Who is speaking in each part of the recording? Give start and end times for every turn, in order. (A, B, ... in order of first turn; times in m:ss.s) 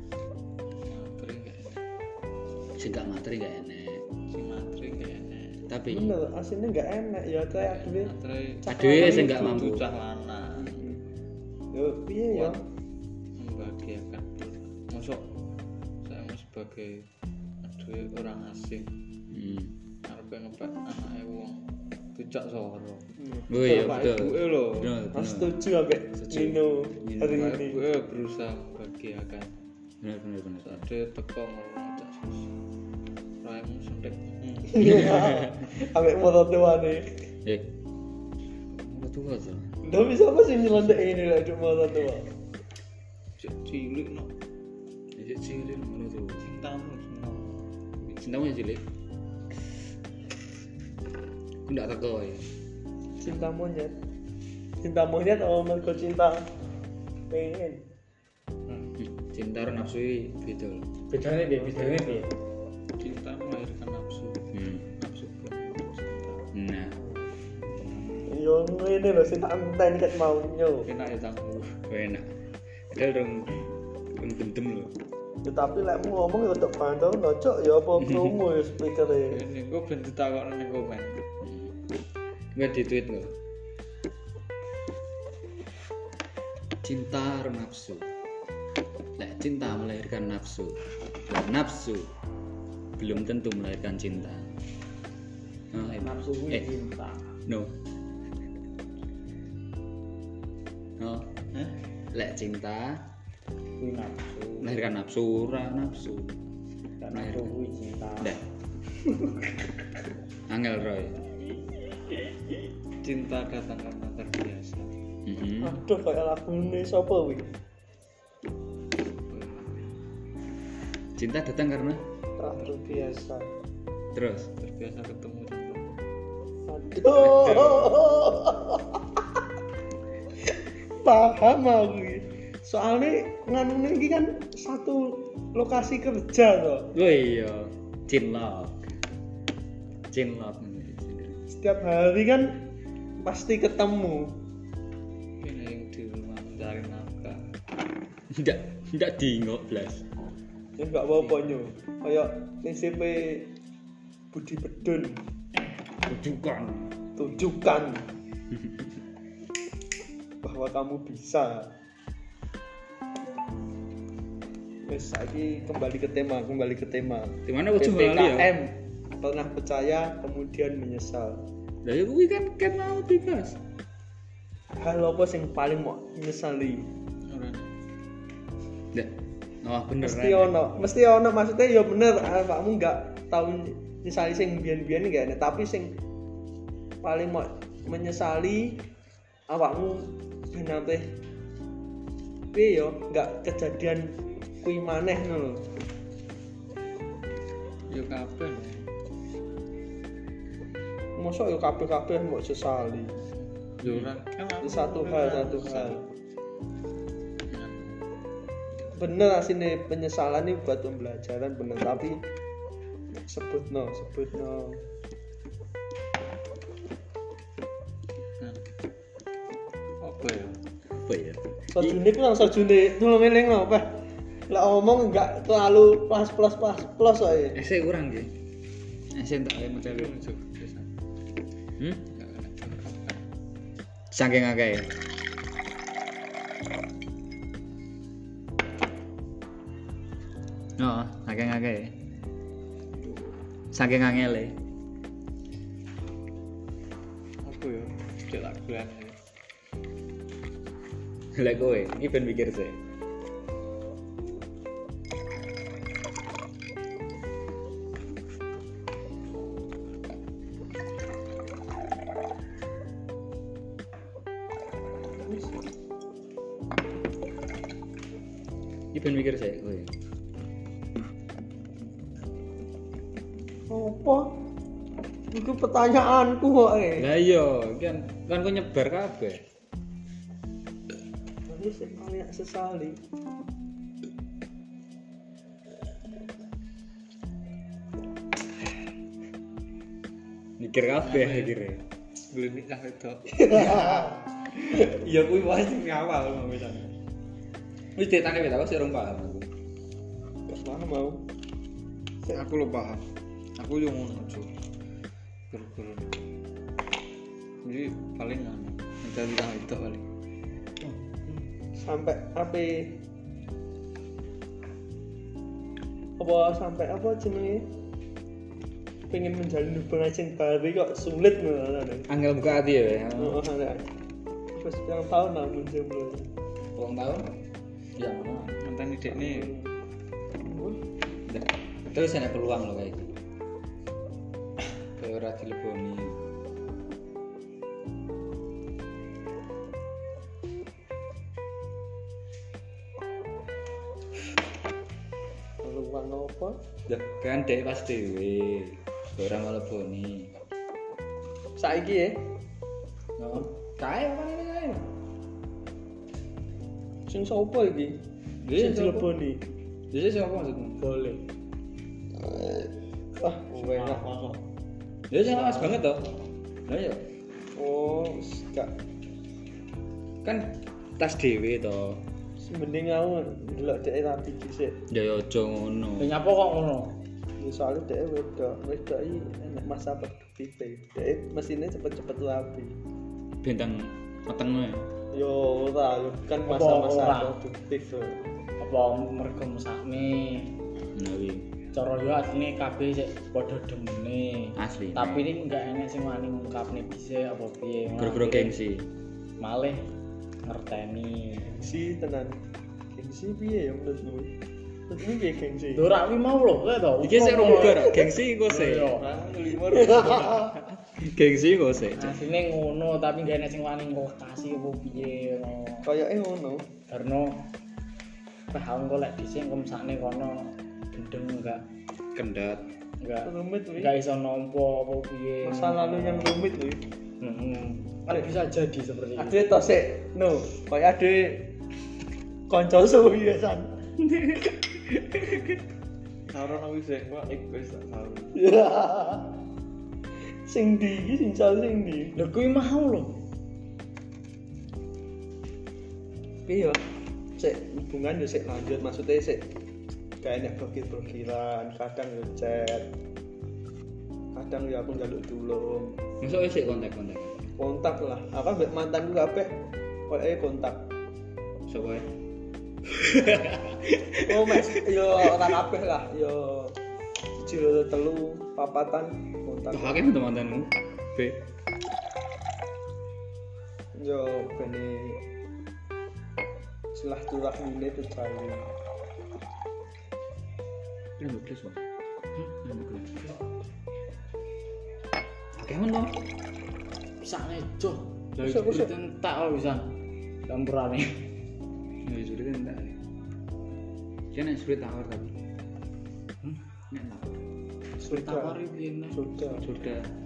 0:00.8-0:01.8 A
0:02.8-0:04.0 B
0:04.3-0:05.6 A
0:05.7-0:06.1 B
0:05.9-0:09.7 C
0:07.6-0:10.9 A
0:08.7-0:09.8 B
0:10.6-0:11.0 C
0:11.7-0:12.6 C
0:12.3-0:12.6 A
0:13.3-0:15.4 A
0:16.0-0:17.1 A
0:17.6-0:18.9 A
0:19.3-0:19.7 B
0:20.0-0:24.9 A
0:23.2-0:24.1 C
0:23.5-0:25.6 B
0:25.1-0:27.8 C
0:26.1-0:27.5 B
0:27.3-0:29.6 A
0:30.0-0:30.8 B
0:30.6-0:32.5 A
0:33.4-0:35.1 A
0:34.7-0:37.2 C
0:35.0-0:35.4 B
0:37.4-0:37.7 B
0:38.7-0:39.8 B
0:39.8-0:42.3 C
0:43.4-0:44.3 A
0:45.2-0:46.5 B
0:46.4-0:48.2 A
0:48.2-0:48.8 B
0:51.6-0:52.5 B
0:53.2-0:53.9 C
0:54.8-0:56.5 C
0:57.3-0:57.8 C
0:59.0-1:00.9 B
1:01.1-1:02.3 D
1:01.7-1:02.1 C
1:02.9-1:06.5 A
1:04.5-1:04.9 B
1:06.5-1:07.0 B
1:08.2-1:10.9 C
1:10.8-1:11.8 A
1:11.9-1:12.3 B
1:12.9-1:14.9 B
1:15.4-1:19.4 C
1:19.2-1:21.2 A
1:21.4-1:21.7 B
1:22.5-1:23.3 B
1:26.8-1:28.1 B
1:29.2-1:32.1 B
1:33.0-1:34.5 B
1:35.7-1:36.7 B
1:35.8-1:37.2 D
1:37.4-1:37.7 B
1:41.0-1:41.4 B
1:41.5-1:41.8 A
1:42.1-1:43.0 B
1:43.8-1:44.8 D
1:44.6-1:46.4 B
1:47.0-1:48.4 D
1:47.1-1:47.5 B
1:50.5-1:51.2 B
1:53.0-1:54.9 A
1:55.2-1:55.8 B
1:55.6-1:57.5 C
1:59.0-2:00.0 A
2:01.2-2:02.0 B
2:02.4-2:03.5 C
2:02.5-2:03.2 A
2:04.1-2:04.5 B
2:04.6-2:05.9 A
2:06.7-2:09.0 C
2:07.3-2:07.9 B
2:10.5-2:16.9 C
2:16.9-2:19.0 B
2:20.1-2:21.4 B
2:21.5-2:22.6 C
2:23.2-2:24.4 C
2:25.4-2:27.4 A
2:28.3-2:30.0 B
2:30.8-2:33.5 C
2:34.3-2:35.2 C
2:36.0-2:36.9 B
2:37.2-2:38.1 C
2:40.4-2:41.7 C
2:44.8-2:51.4 C
2:47.4-2:48.5 B
2:51.8-2:53.6 B
2:54.8-2:56.9 C
2:57.2-2:57.7 A
2:58.9-3:00.5 B
3:00.0-3:05.9 C
3:07.0-3:08.8 C
3:09.5-3:11.2 C
3:12.5-3:15.7 C
3:17.9-3:18.9 A
3:21.2-3:23.2 C
3:23.8-3:26.0 A
3:24.6-3:26.0 C
3:27.5-3:28.1 A
3:28.9-3:32.2 C
3:33.1-3:34.8 C
3:38.4-3:38.6 A
3:40.0-3:40.6 A
3:40.9-3:42.0 B
3:41.7-3:47.6 C
3:47.5-3:48.4 B
3:49.1-3:50.1 B
3:49.8-3:50.9 A
3:51.8-3:52.0 B
3:52.1-3:53.2 A
3:54.1-3:54.9 B
4:00.8-4:02.0 B
4:03.7-4:04.6 B
4:07.4-4:09.2 A
4:11.3-4:12.8 B
4:25.1-4:25.5 C
4:28.9-4:29.9 B
4:33.7-4:34.3 C
4:35.3-4:37.1 C
4:37.0-4:39.4 B
4:41.5-4:43.0 C
4:50.6-4:51.8 B
4:51.0-4:51.5 A
4:52.3-4:54.1 A
4:53.5-4:54.0 C
4:54.6-4:56.9 A
4:58.0-4:59.5 B
5:00.5-5:01.2 C
5:02.2-5:04.5 A
5:05.5-5:06.2 A
5:07.6-5:10.1 A
5:11.8-5:12.9 C
5:16.2-5:17.7 C
5:19.1-5:22.1 C
5:22.1-5:23.4 B
5:23.2-5:23.9 C
5:24.5-5:26.3 C
5:26.8-5:27.3 B
5:28.0-5:28.6 B
5:28.6-5:29.6 A
5:29.1-5:29.7 C
5:30.4-5:30.8 C
5:31.2-5:33.1 B
5:35.0-5:36.2 B
5:45.6-5:46.6 C
5:46.9-5:50.4 B
5:51.6-5:52.3 C
5:53.2-5:54.9 B
5:57.1-5:58.0 C
5:58.4-5:59.1 B
5:58.5-5:59.4 C
5:59.9-6:00.8 B
6:00.8-6:01.2 D
6:02.2-6:03.9 C
6:03.5-6:04.4 A
6:05.1-6:07.0 B
6:07.6-6:08.7 C
6:10.2-6:12.0 B
6:12.4-6:14.8 C
6:14.9-6:16.1 B
6:16.0-6:17.0 D
6:17.4-6:22.8 C
6:23.4-6:24.9 B
6:25.1-6:28.2 C
6:26.5-6:27.3 D
6:28.6-6:30.6 D
6:30.9-6:31.5 B
6:31.7-6:38.5 D
6:34.6-6:35.3 B
6:38.0-6:38.9 B
6:39.4-6:39.8 D
6:40.4-6:41.5 D
6:41.4-6:42.4 C
6:42.9-6:44.3 C
6:44.9-6:45.8 C
6:45.7-6:49.0 D
6:47.0-6:48.9 B
6:48.8-6:50.6 A
6:50.8-6:52.2 B
6:52.0-6:55.9 D
6:55.8-6:56.7 C
6:56.9-6:57.5 D
6:58.5-7:01.6 D
7:02.1-7:02.7 B
7:03.0-7:06.4 D
7:03.2-7:03.9 C
7:05.4-7:06.8 C
7:07.2-7:09.5 D
7:09.2-7:11.5 C
7:12.5-7:13.8 C
7:16.3-7:18.4 A
7:18.3-7:19.3 C
7:20.4-7:22.1 C
7:22.1-7:23.2 D
7:26.5-7:26.8 C
7:27.4-7:29.5 C
7:30.2-7:32.9 C
7:34.3-7:36.0 C
7:36.2-7:37.5 B
7:37.6-7:40.9 C
7:41.7-7:42.1 B
7:42.9-7:45.3 B
7:44.2-7:46.8 C
7:47.4-7:50.0 C
7:49.7-7:51.4 B
7:53.9-7:55.2 C
7:56.9-7:58.7 C
8:01.2-8:01.8 B
8:02.5-8:03.3 B
8:05.5-8:06.2 B
8:07.2-8:10.0 D
8:08.4-8:08.9 C
8:10.5-8:11.2 D
8:12.0-8:13.0 B
8:14.3-8:15.4 B
8:16.9-8:17.4 B
8:18.0-8:18.6 C
8:18.0-8:19.2 D
8:19.1-8:19.7 C
8:19.6-8:20.1 B